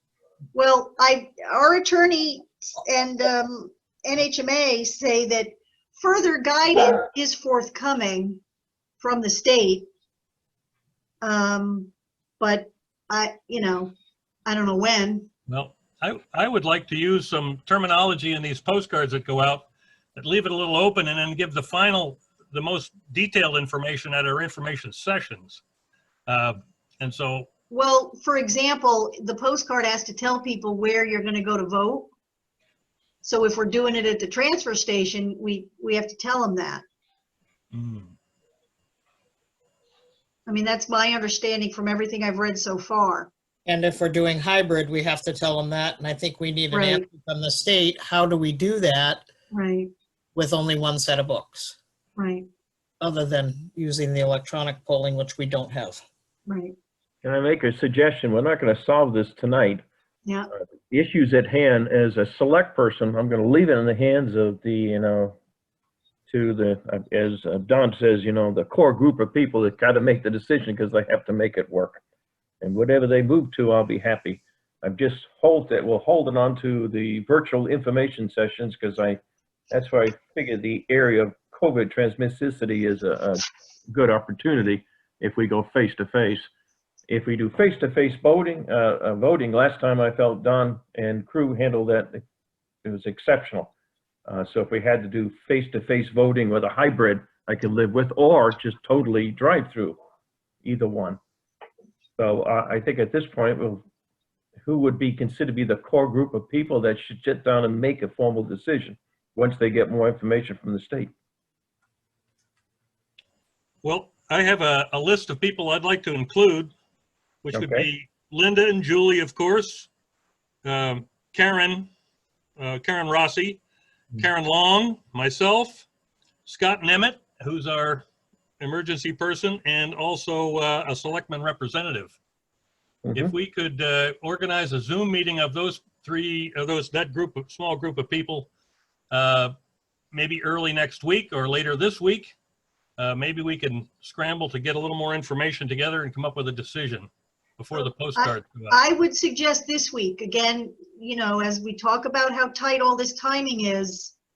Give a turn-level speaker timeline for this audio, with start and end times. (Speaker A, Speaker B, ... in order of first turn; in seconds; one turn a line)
Speaker A: 0.5-8.4
Speaker A: 9.0-9.9
Speaker A: 11.2-13.9
Speaker A: 14.5-15.3
Speaker B: 15.5-25.6
Speaker B: 26.3-27.5
Speaker A: 27.7-32.1
Speaker A: 33.2-36.8
Speaker B: 37.7-38.1
Speaker A: 40.5-43.3
Speaker C: 43.7-49.2
Speaker A: 46.7-47.0
Speaker A: 49.5-49.9
Speaker C: 50.4-51.8
Speaker A: 52.2-52.5
Speaker C: 53.0-56.0
Speaker A: 56.5-56.8
Speaker D: 57.2-59.8
Speaker D: 60.9-65.4
Speaker D: 66.3-72.0
Speaker D: 72.6-79.2
Speaker D: 79.7-86.5
Speaker D: 87.1-92.2
Speaker D: 92.9-93.7
Speaker D: 94.3-100.0
Speaker D: 100.6-101.2
Speaker D: 102.2-103.8
Speaker D: 104.7-111.1
Speaker B: 113.8-116.7
Speaker B: 117.4-119.9
Speaker B: 120.7-121.9
Speaker B: 122.6-123.6
Speaker B: 124.2-125.9
Speaker B: 126.5-128.1
Speaker B: 128.6-132.2
Speaker B: 133.1-138.5
Speaker B: 139.1-139.5
Speaker B: 140.1-142.3
Speaker B: 143.0-148.8
Speaker A: 148.2-154.1